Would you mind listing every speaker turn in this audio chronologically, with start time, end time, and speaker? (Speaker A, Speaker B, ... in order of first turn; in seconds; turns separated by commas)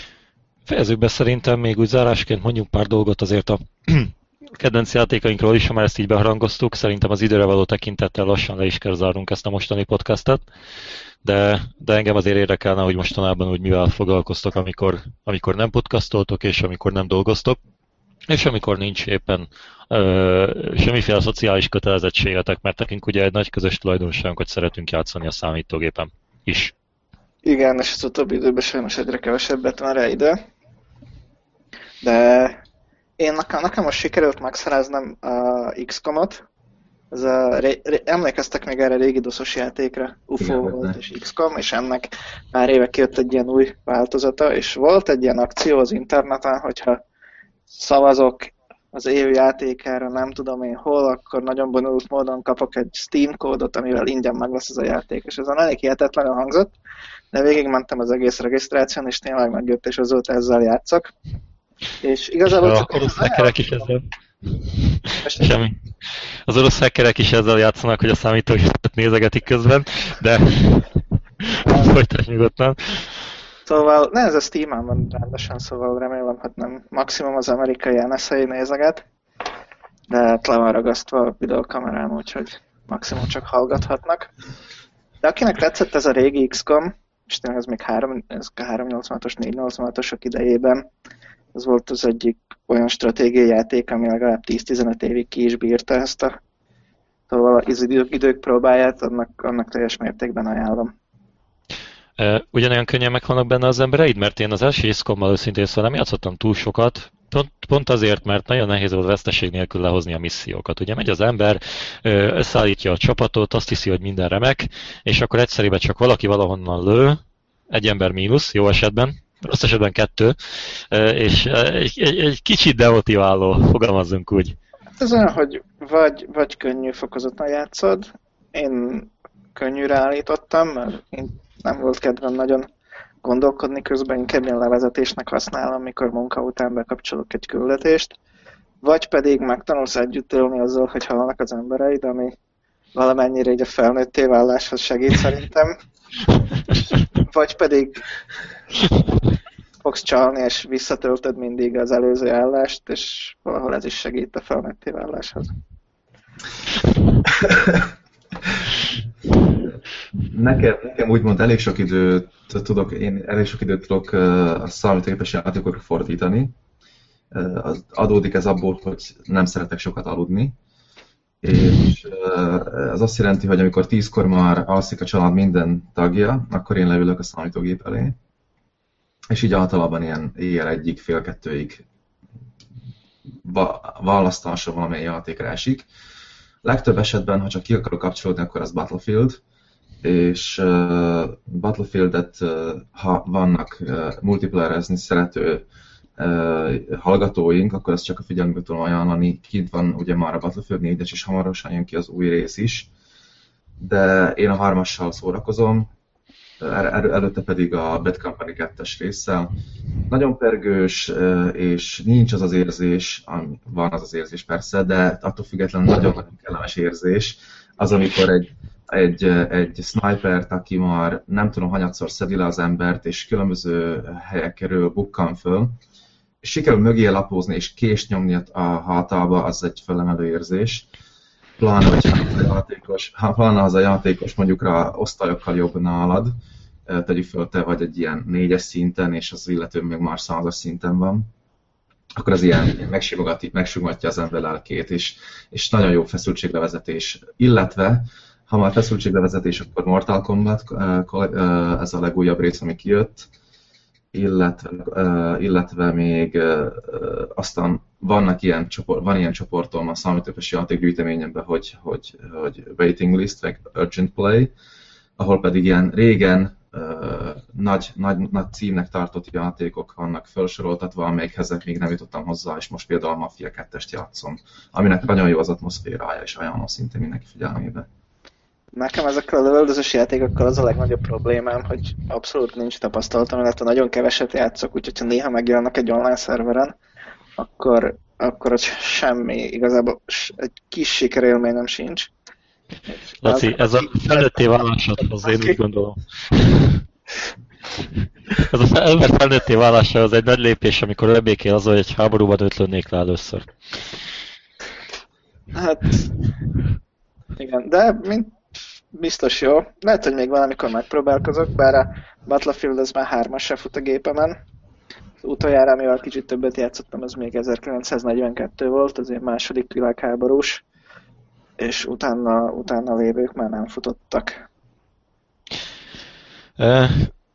Speaker A: 0.7-10.4, Speaker A: 11.2-17.6, Speaker A: 18.3-26.7, Speaker B: 27.4-30.4, Speaker B: 32.0-32.6, Speaker B: 33.2-36.4, Speaker B: 37.1-47.0, Speaker C: 40.4-41.0, Speaker B: 47.7-56.7, Speaker B: 57.3-61.1, Speaker B: 62.0-63.9, Speaker A: 62.5-65.8, Speaker B: 65.2-65.6, Speaker A: 66.5-73.1, Speaker B: 71.7-71.9, Speaker B: 73.7-79.0, Speaker B: 80.1-84.3, Speaker B: 85.2-90.9, Speaker B: 91.5-96.4, Speaker B: 97.3-100.9, Speaker A: 102.2-117.2, Speaker A: 117.7-120.4, Speaker A: 120.9-124.6, Speaker B: 125.0-132.7, Speaker B: 133.2-138.1, Speaker B: 138.8-142.3, Speaker B: 142.9-145.7, Speaker B: 147.2-148.0, Speaker B: 149.8-155.5, Speaker C: 157.3-157.9, Speaker C: 159.6-166.5, Speaker C: 167.3-170.6, Speaker C: 171.4-178.2, Speaker C: 179.3-181.8, Speaker C: 183.4-185.9, Speaker C: 186.6-189.4, Speaker C: 190.0-195.7, Speaker C: 196.2-202.9, Speaker C: 203.8-205.9, Speaker C: 206.6-209.6, Speaker C: 210.1-225.8, Speaker C: 226.4-230.9, Speaker C: 231.6-236.3, Speaker C: 236.9-241.3, Speaker C: 242.2-253.3, Speaker C: 254.1-264.5, Speaker C: 265.2-277.9, Speaker B: 278.8-286.7, Speaker B: 287.4-292.1, Speaker B: 293.1-294.5, Speaker A: 293.2-296.8, Speaker B: 295.2-295.6, Speaker A: 298.3-303.5, Speaker B: 305.5-306.1, Speaker B: 307.4-308.4, Speaker B: 308.9-314.4, Speaker B: 315.2-320.6, Speaker B: 321.6-324.4, Speaker A: 326.6-327.1